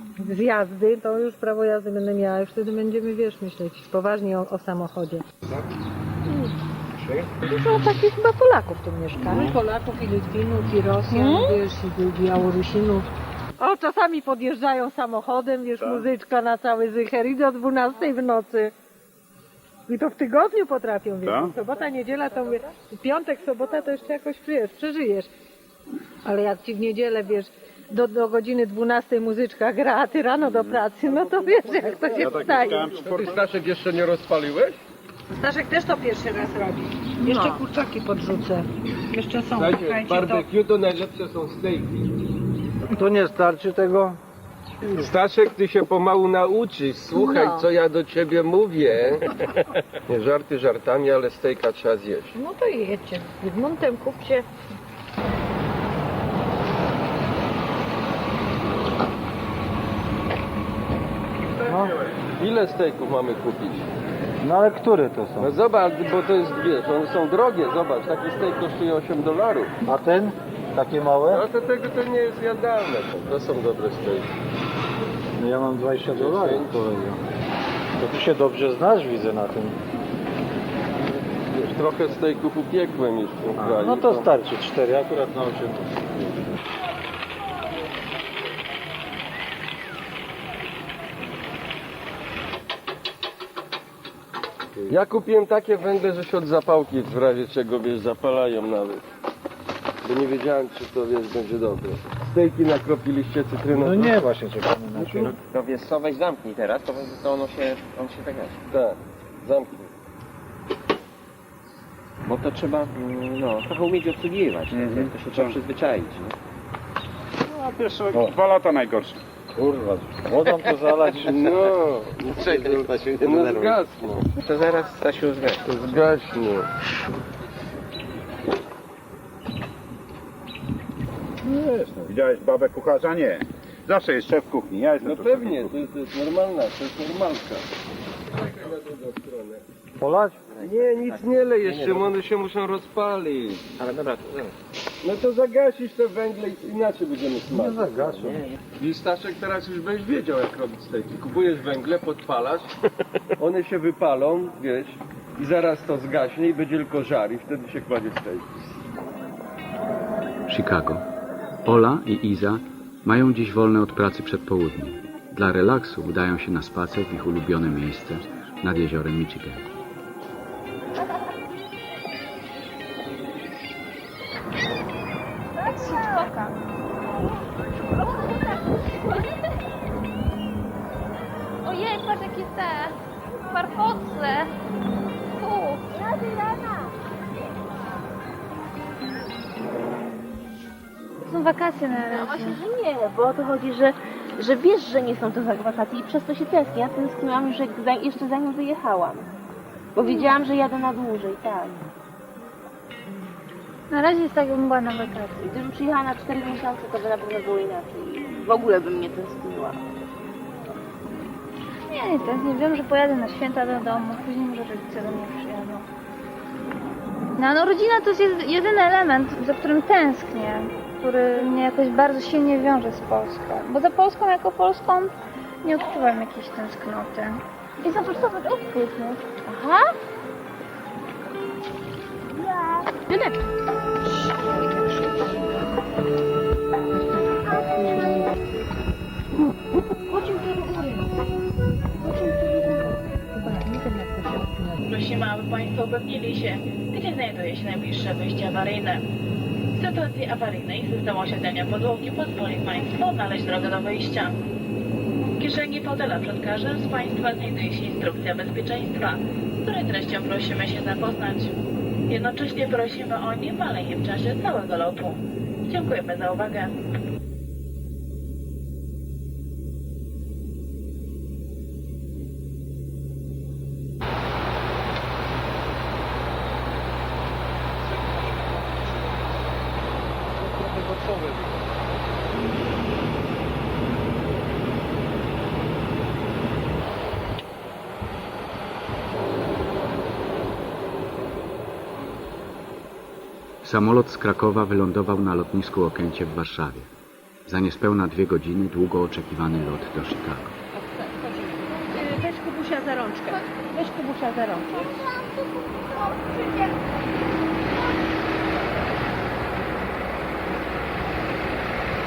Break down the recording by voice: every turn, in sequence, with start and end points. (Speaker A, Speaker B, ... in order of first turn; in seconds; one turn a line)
Speaker A: 0.2-5.2
Speaker A: 7.4-13.1
Speaker B: 9.2-9.6
Speaker A: 13.6-18.7
Speaker B: 15.8-16.1
Speaker A: 19.9-25.3
Speaker B: 21.2-21.6
Speaker A: 26.2-32.9
Speaker B: 32.1-33.4
Speaker C: 32.7-34.8
Speaker A: 35.3-40.4
Speaker C: 39.5-42.1
Speaker D: 42.9-44.2
Speaker C: 44.8-52.3
Speaker A: 47.1-47.6
Speaker A: 52.4-54.4
Speaker D: 61.7-62.0
Speaker C: 62.4-63.9
Speaker D: 64.4-65.5
Speaker C: 65.4-69.7
Speaker D: 69.8-71.4
Speaker C: 71.3-74.3
Speaker D: 75.3-77.2
Speaker C: 76.1-76.8
Speaker D: 78.0-79.8
Speaker C: 81.5-84.3
Speaker D: 83.6-86.6
Speaker C: 94.9-99.0
Speaker C: 100.0-104.1
Speaker D: 103.7-105.3
Speaker E: 104.9-108.6
Speaker C: 108.7-109.9
Speaker E: 112.2-116.3
Speaker B: 114.7-115.6
Speaker B: 117.5-119.2
Speaker D: 119.5-121.6
Speaker C: 121.2-124.3
Speaker E: 122.3-123.8
Speaker E: 124.4-125.9
Speaker C: 125.7-126.7
Speaker B: 131.4-135.8
Speaker C: 135.0-137.7
Speaker C: 138.2-139.6
Speaker D: 140.0-140.4
Speaker E: 140.5-142.1
Speaker C: 140.6-143.7
Speaker E: 143.8-144.5
Speaker C: 145.0-152.7
Speaker D: 147.5-148.4
Speaker E: 148.2-148.5
Speaker C: 153.4-158.7
Speaker F: 160.5-161.0
Speaker F: 161.6-169.7
Speaker G: 175.6-176.6
Speaker G: 181.6-183.0
Speaker G: 183.5-184.5
Speaker G: 185.3-185.9
Speaker H: 186.0-186.9
Speaker G: 191.2-192.6
Speaker H: 192.1-199.3
Speaker H: 199.9-201.8
Speaker G: 200.1-200.4
Speaker G: 203.9-205.4
Speaker H: 205.4-209.8
Speaker G: 211.9-215.9
Speaker G: 217.3-229.2
Speaker H: 229.5-229.9
Speaker H: 232.4-233.4
Speaker A: 243.4-244.8
Speaker I: 244.9-249.0
Speaker I: 249.7-254.4
Speaker I: 255.2-261.5
Speaker I: 262.1-266.7
Speaker F: 293.6-296.9
Speaker F: 297.4-300.6